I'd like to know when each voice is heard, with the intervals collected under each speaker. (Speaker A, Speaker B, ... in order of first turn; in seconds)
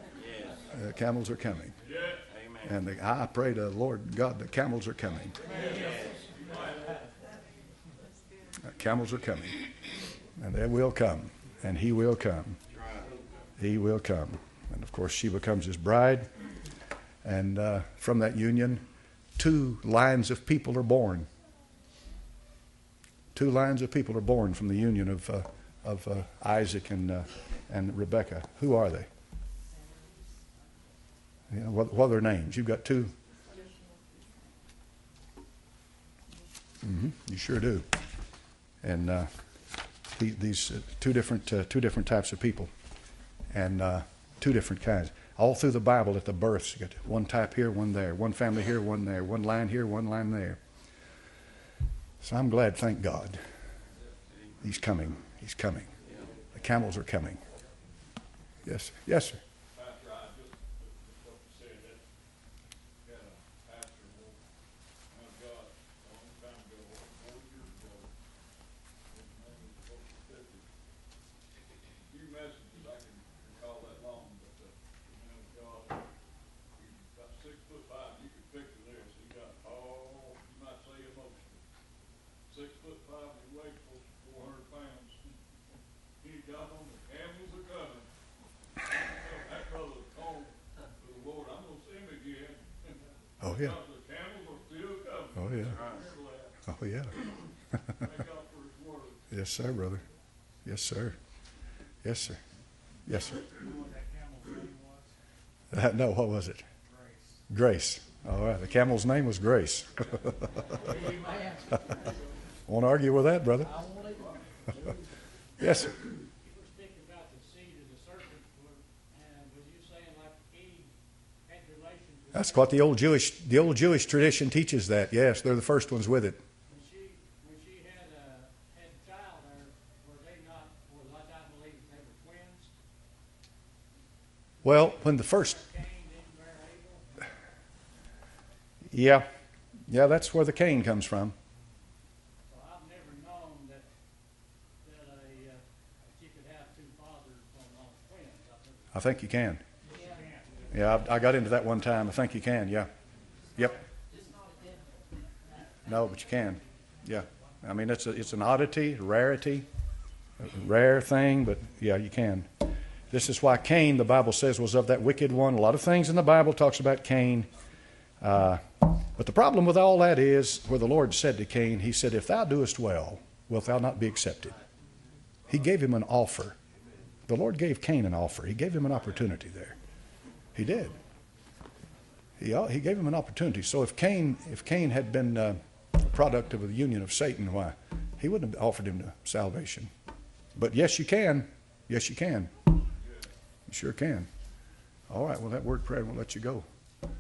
Speaker A: 0.7-1.7, 2.6-5.3, 8.6-9.7, 10.4-12.6, 13.6-16.3, 17.2-18.8, 19.4-21.3, 23.3-29.1, 31.5-33.1, 36.8-37.9, 38.8-39.3, 40.1-42.7, 43.5-50.6, 52.2-53.4, 54.6-55.9, 56.5-57.4, 58.6-59.4, 93.4-93.8, 95.4-95.8, 96.7-97.1, 99.3-100.0, 100.6-101.2, 102.0-102.4, 103.1-103.5, 105.7-106.6, 107.5-111.1, 112.7-113.7, 115.6-116.0, 122.3-126.4, 134.6-135.6, 138.9-139.2, 139.9-141.3, 148.9-149.6, 150.7-152.9, 155.8-159.7, 160.4-167.5, 168.2-174.6, 175.5-176.6, 177.3-179.8, 180.5-181.0, 182.4-189.9, 190.6-192.5, 193.7-194.3, 195.1-196.7
Speaker B: 1.8-2.3, 5.5-6.9, 59.7-62.0, 63.0-64.4, 65.1-68.1, 69.1-70.7, 72.0-76.0, 76.8-81.6, 82.5-85.4, 86.2-88.1, 88.8-96.5, 98.0-99.3, 193.0-193.3
Speaker C: 103.5-105.0, 110.9-111.9, 116.4-120.9, 121.4-122.8, 126.7-132.7, 135.2-137.3, 142.5-143.9, 144.8-148.9, 149.9-150.4